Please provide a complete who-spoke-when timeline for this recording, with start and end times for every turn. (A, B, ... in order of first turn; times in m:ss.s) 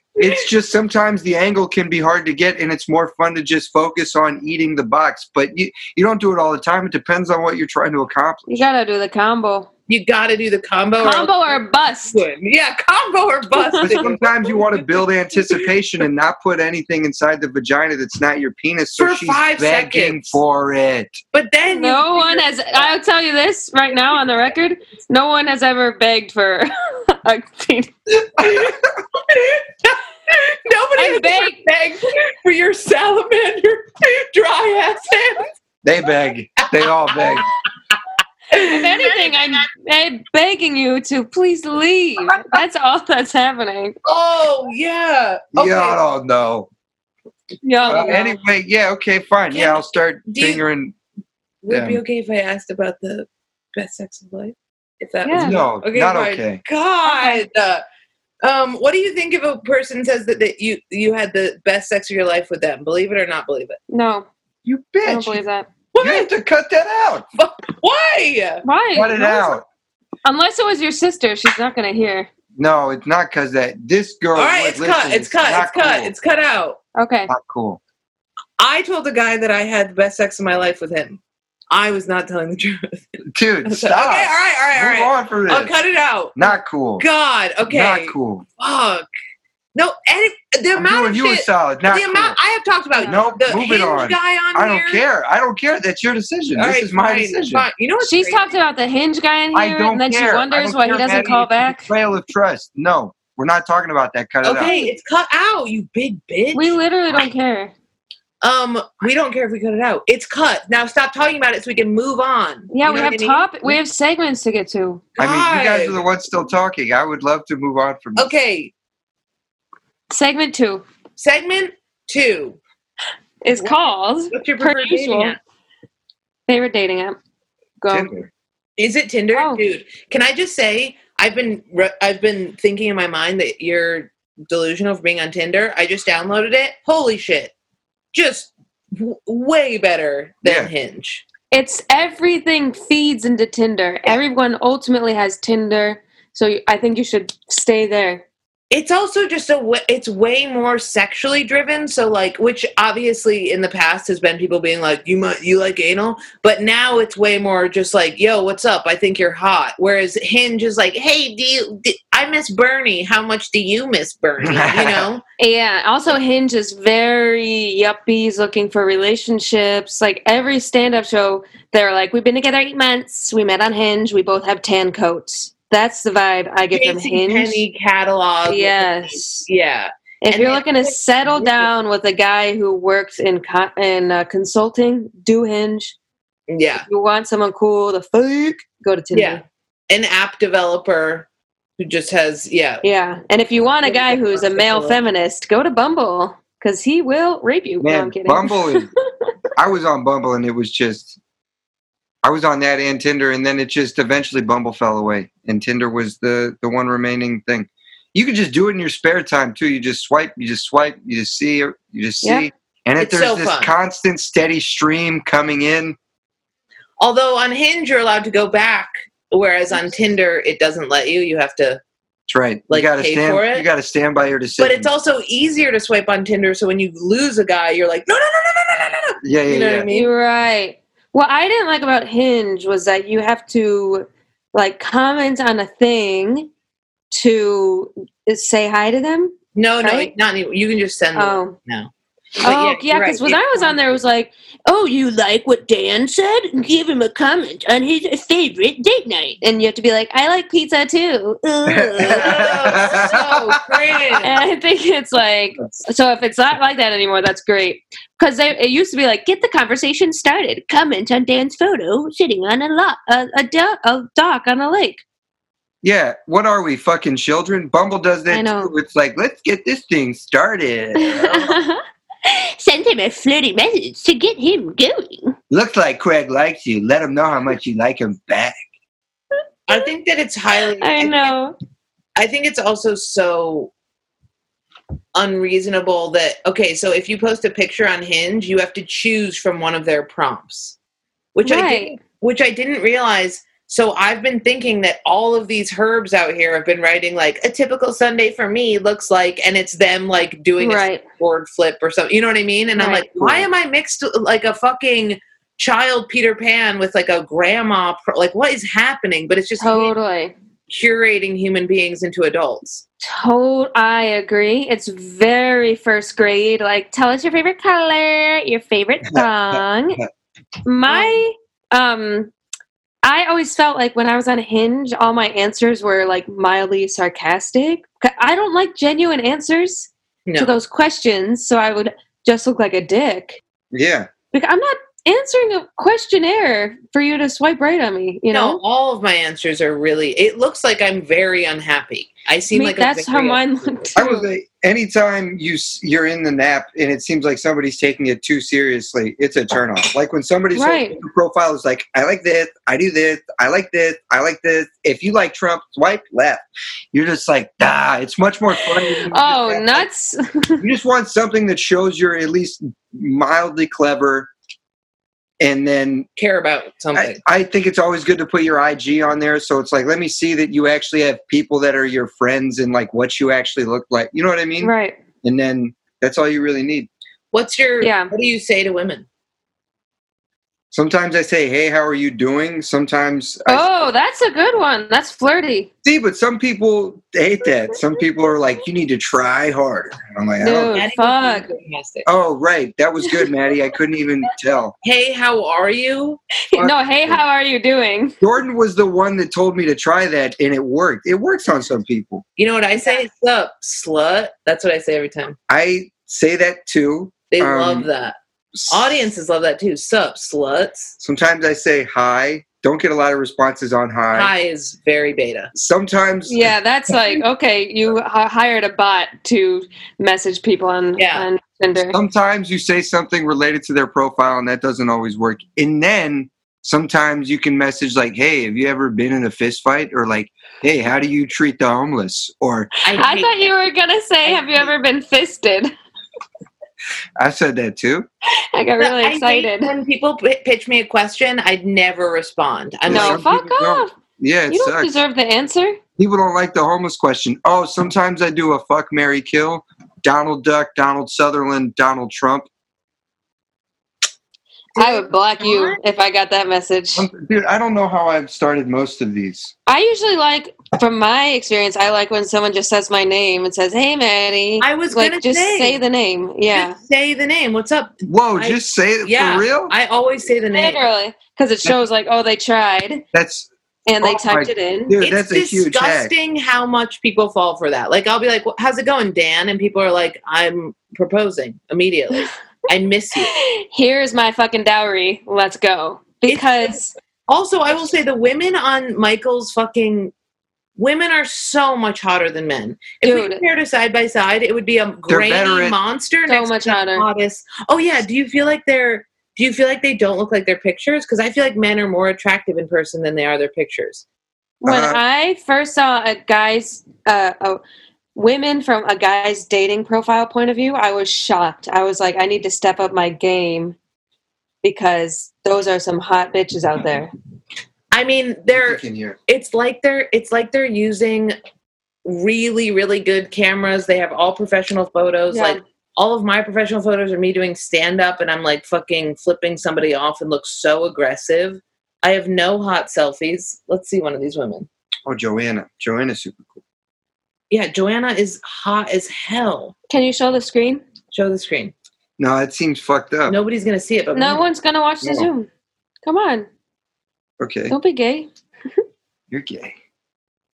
0:00.2-0:08.7 A
0:08.5-0:09.7 B
0:09.9-0:14.9 C
0:11.0-0:12.2 B
0:13.5-0:14.1 B
0:13.8-0:21.2 A
0:19.0-0:20.4 C
0:21.3-0:22.9 C
0:21.7-0:27.9 B
0:28.4-0:35.5 C
0:31.0-0:31.6 B
0:35.8-0:37.5 A
0:36.7-0:37.4 C
0:38.5-0:39.6 C
0:38.5-0:44.0 B
0:44.0-0:46.0 C
0:45.6-0:46.7 A
0:47.6-0:48.3 B
0:47.8-0:50.9 A
0:47.9-0:48.2 C
0:49.5-0:50.6 C
0:51.6-0:57.8 C
0:51.7-0:52.0 A
0:55.2-0:55.6 B
0:55.4-0:56.6 A
0:57.0-0:57.4 B
0:58.4-1:03.8 C
1:03.9-1:04.3 B
1:04.7-1:05.4 A
1:05.0-1:05.7 B
1:05.9-1:06.3 C
1:06.0-1:07.3 A
1:07.4-1:08.6 C
1:08.6-1:09.6 B
1:08.9-1:09.6 A
1:10.2-1:12.3 B
1:12.6-1:16.1 A
1:14.4-1:16.8 C
1:17.0-1:17.3 B
1:17.3-1:17.8 A
1:18.6-1:21.2 C
1:21.7-1:23.0 C
1:23.3-1:25.8 A
1:23.7-1:29.1 C
1:26.4-1:27.0 A
1:27.7-1:28.4 A
1:29.8-1:35.0 C
1:30.7-1:32.4 A
1:33.0-1:33.3 B
1:33.0-1:37.7 A
1:36.6-1:38.6 C
1:38.0-1:41.9 B
1:39.5-1:44.7 A
1:40.9-1:41.3 C
1:44.4-1:46.8 C
1:44.6-1:45.0 B
1:46.5-1:47.7 B
1:48.4-1:53.8 C
1:52.7-1:55.1 B
1:55.2-1:56.0 C
1:55.2-1:58.3 A
1:58.2-1:58.7 C
2:00.1-2:00.8 B
2:01.2-2:02.6 C
2:03.4-2:05.4 B
2:04.3-2:05.4 C
2:06.5-2:07.2 B
2:07.8-2:08.1 B
2:07.9-2:08.3 A
2:08.8-2:17.5 C
2:09.3-2:09.6 B
2:18.1-2:21.2 C
2:20.4-2:20.7 A
2:21.5-2:28.2 B
2:28.7-2:45.2 C
2:44.4-2:45.1 A
2:45.4-2:57.6 B
2:56.7-3:01.7 C
2:58.5-2:59.5 B
3:00.2-3:06.0 B
3:06.5-3:06.9 C
3:06.8-3:09.4 B
3:09.1-3:12.8 C
3:12.8-3:18.9 B
3:13.9-3:15.0 C
3:17.8-3:18.9 A
3:19.6-3:21.2 A
3:22.2-3:36.0 A
3:32.2-3:32.5 B
3:33.0-3:33.7 C
3:37.0-3:41.8 C
3:42.3-3:44.9 A
3:42.7-3:43.7 C
3:44.6-3:50.1 C
3:49.2-3:49.9 A
3:49.9-3:56.5 B
3:57.1-4:00.1 B
3:59.6-4:04.0 C
4:01.2-4:01.6 B
4:02.4-4:12.5 B
4:11.7-4:13.6 A
4:12.0-4:14.3 C
4:14.2-4:25.0 B
4:25.8-4:31.6 A
4:28.3-4:28.7 B
4:31.0-4:35.4 B
4:35.5-4:38.6 A
4:39.7-4:41.4 C
4:40.8-4:41.6 B
4:42.2-4:43.7 C
4:45.2-4:50.8 C
4:51.4-5:09.9 C
4:51.4-4:51.9 B
5:00.6-5:01.0 B
5:02.8-5:03.1 B
5:03.2-5:03.5 A
5:09.6-5:10.3 B
5:10.7-5:12.8 C
5:13.0-5:20.0 B
5:19.1-5:20.1 A
5:20.6-5:22.3 B
5:20.9-5:21.2 C
5:23.0-5:33.4 B
5:30.3-5:30.5 C
5:33.7-5:34.1 A
5:34.3-5:38.6 B
5:38.3-5:43.5 C
5:42.5-5:44.3 B
5:44.0-5:59.9 A
5:50.6-5:51.0 B
5:58.9-6:00.6 B
6:00.6-6:04.3 A
6:05.4-6:06.1 A
6:06.2-6:07.2 C
6:07.0-6:16.9 A
6:14.6-6:15.0 B
6:17.3-6:19.1 C
6:17.8-6:18.1 B
6:20.7-6:23.9 A
6:23.5-6:25.7 B
6:25.8-6:30.8 A
6:30.4-6:31.5 B
6:30.7-6:32.1 C
6:32.0-6:34.7 A
6:34.8-6:36.2 C
6:36.5-6:38.2 B
6:36.6-6:37.2 A
6:38.2-6:42.2 A
6:42.4-6:45.4 C
6:45.5-6:47.9 A
6:47.3-6:48.2 C
6:48.5-6:48.9 A
6:48.7-6:51.0 C
6:51.0-6:54.3 A
6:54.1-6:55.5 C
6:55.5-6:57.0 A
6:56.3-7:02.0 B
7:01.0-7:01.3 C
7:01.9-7:12.8 A
7:12.8-7:13.5 C
7:12.9-7:15.7 B
7:14.2-7:14.7 C
7:17.2-7:18.1 A
7:18.5-7:19.7 B
7:18.8-7:23.2 C
7:22.9-7:24.9 A
7:22.9-7:23.9 B
7:24.5-7:25.8 B
7:26.0-7:32.5 A
7:34.8-7:35.8 C
7:34.8-7:37.1 B
7:37.0-7:39.5 A
7:39.7-7:46.8 B
7:44.6-7:45.8 C
7:46.5-7:50.8 C
7:48.0-7:49.7 A
7:50.5-7:53.0 B
7:53.1-7:53.5 A
7:53.9-7:55.0 B
7:54.0-7:56.1 A
7:55.0-8:03.3 C
8:03.2-8:06.9 B
8:06.3-8:06.8 C
8:07.3-8:10.1 C
8:10.8-8:24.0 C
8:13.0-8:13.4 B
8:15.1-8:15.8 A
8:16.3-8:17.1 B
8:24.6-8:27.6 B
8:24.6-8:25.0 A
8:28.2-8:33.8 B
8:34.6-8:37.1 B
8:37.9-8:41.4 C
8:38.5-8:39.2 A
8:42.0-8:54.7 C
8:45.3-8:45.6 B
8:55.1-8:56.6 A
8:57.5-8:59.7 C
8:59.9-9:00.8 B
9:01.1-9:01.7 C
9:02.2-9:03.4 A
9:03.3-9:04.4 C
9:04.1-9:05.5 B
9:05.0-9:05.3 A
9:06.0-9:06.5 B
9:07.4-9:07.8 A
9:07.7-9:08.3 B
9:09.3-9:09.8 A